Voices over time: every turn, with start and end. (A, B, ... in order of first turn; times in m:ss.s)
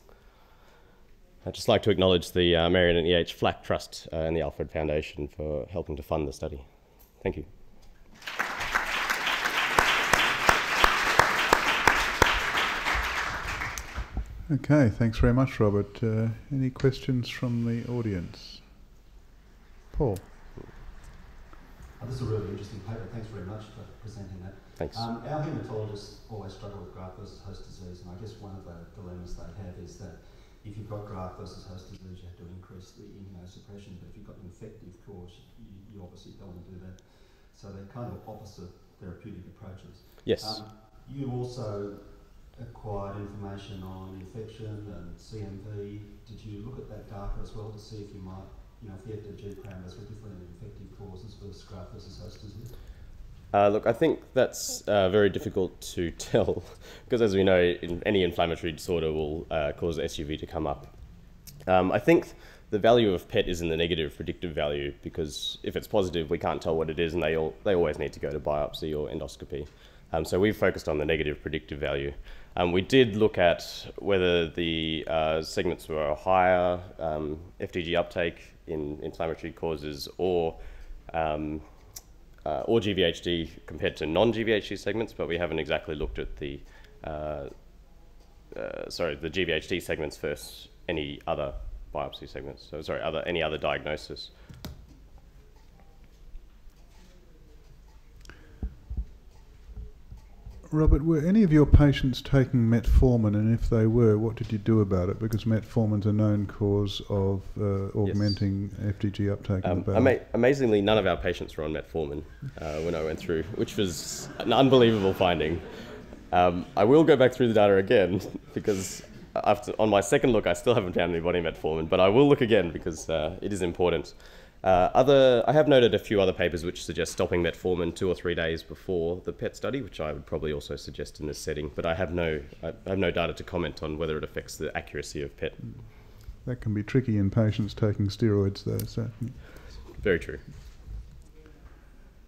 0:01.4-0:07.5 A
0:14.5-0:18.7 B
0:19.9-0:20.3 B
0:22.0-0:52.8 C
0:24.8-0:25.1 A
0:40.2-0:40.6 A
0:53.5-1:01.0 A
1:01.6-1:21.7 A
1:22.4-1:27.7 A
1:28.5-1:34.3 A
1:40.7-1:50.2 B
1:48.0-1:48.5 A
1:49.6-1:55.7 A
1:56.3-2:15.6 A
2:16.2-2:19.6 B
2:19.9-2:20.5 A